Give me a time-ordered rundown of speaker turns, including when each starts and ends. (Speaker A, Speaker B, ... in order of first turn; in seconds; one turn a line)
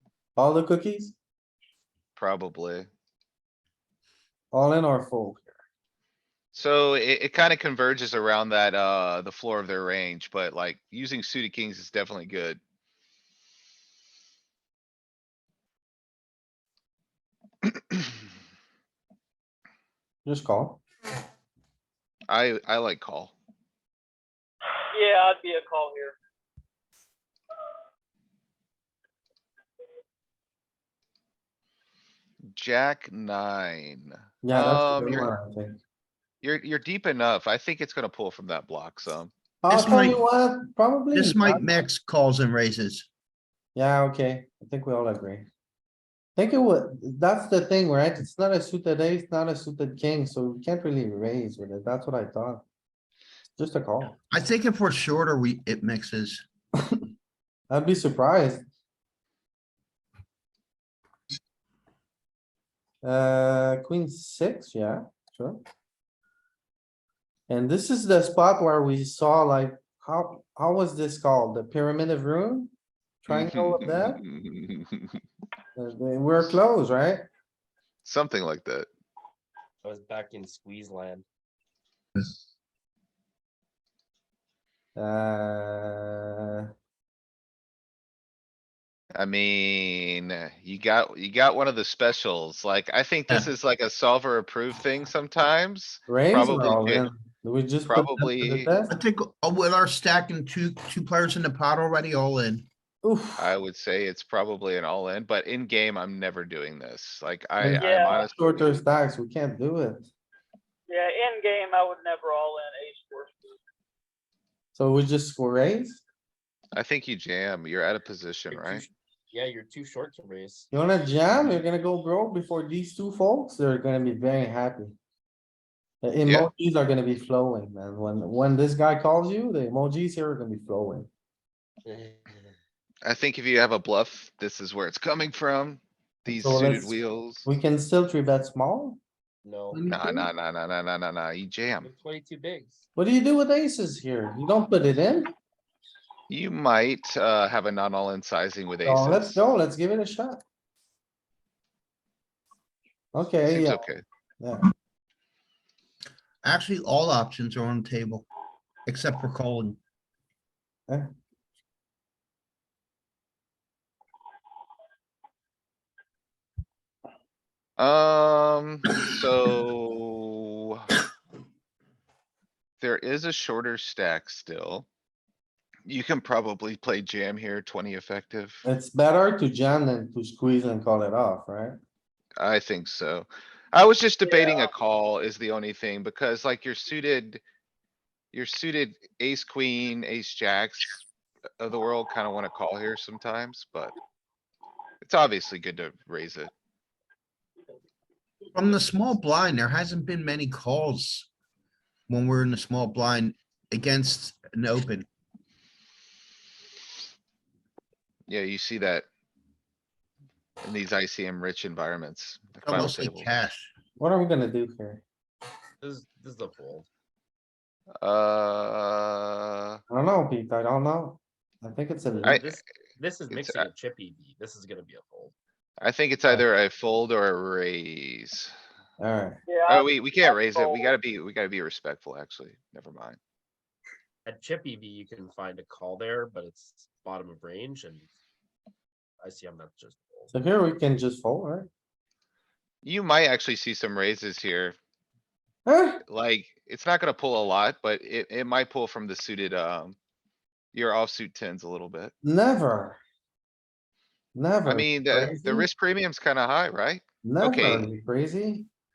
Speaker A: 0.4-1.2
Speaker B: 2.2-2.9
Speaker A: 4.5-5.6
Speaker B: 6.5-12.6
Speaker A: 20.2-20.8
Speaker B: 22.3-23.3
Speaker C: 24.9-26.2
Speaker B: 32.5-35.3
Speaker A: 34.4-35.8
Speaker B: 36.4-39.3
Speaker A: 39.6-41.8
Speaker D: 39.7-40.2
Speaker D: 41.1-43.1
Speaker A: 43.8-45.5
Speaker A: 46.4-52.6
Speaker A: 53.6-54.2
Speaker D: 54.3-56.4
Speaker A: 57.7-58.6
Speaker A: 63.0-65.6
Speaker A: 67.5-72.7
Speaker A: 73.2-74.2
Speaker B: 73.3-75.2
Speaker A: 75.8-77.2
Speaker B: 78.0-78.9
Speaker E: 79.8-81.2
Speaker A: 85.0-86.7
Speaker B: 89.2-97.1
Speaker A: 96.1-98.9
Speaker B: 97.9-98.7
Speaker D: 98.9-102.7
Speaker A: 103.0-103.5
Speaker B: 103.4-108.8
Speaker A: 107.6-110.1
Speaker C: 107.8-108.2
Speaker C: 110.9-113.4
Speaker A: 114.8-116.0
Speaker B: 116.8-118.8
Speaker E: 118.5-120.7
Speaker A: 120.7-125.0
Speaker A: 126.0-131.1
Speaker E: 131.8-132.5
Speaker B: 133.1-137.5
Speaker A: 136.3-139.0
Speaker E: 139.4-139.9
Speaker A: 139.7-140.3
Speaker B: 139.9-141.9
Speaker E: 141.8-142.8
Speaker A: 143.0-145.3
Speaker B: 146.3-149.4
Speaker A: 148.8-150.4
Speaker A: 153.1-153.8
Speaker B: 153.5-154.0
Speaker A: 154.4-154.7
Speaker D: 156.4-158.3
Speaker D: 158.9-159.8
Speaker B: 167.8-170.8
Speaker B: 172.8-174.9
Speaker B: 175.9-178.6
Speaker A: 178.7-181.8
Speaker B: 182.4-187.4
Speaker C: 184.3-184.7
Speaker B: 188.3-191.0
Speaker B: 191.6-193.9
Speaker B: 195.0-196.5
Speaker D: 198.6-201.3
Speaker D: 202.1-205.1
Speaker B: 208.3-209.1
Speaker B: 210.6-213.3
Speaker D: 212.6-213.7
Speaker A: 214.0-215.0
Speaker E: 215.8-216.9
Speaker B: 218.0-219.8
Speaker A: 219.9-222.4
Speaker E: 222.2-225.3
Speaker B: 223.3-223.7
Speaker B: 225.8-228.5
Speaker A: 229.0-229.4
Speaker C: 229.5-230.9
Speaker B: 229.7-233.2
Speaker E: 234.2-238.1
Speaker E: 239.2-240.3
Speaker A: 240.3-241.7
Speaker B: 242.8-244.8
Speaker A: 245.7-246.0
Speaker B: 246.1-250.0
Speaker B: 250.7-252.1
Speaker A: 252.2-253.0
Speaker A: 254.3-255.7
Speaker B: 254.7-257.9
Speaker A: 257.2-258.7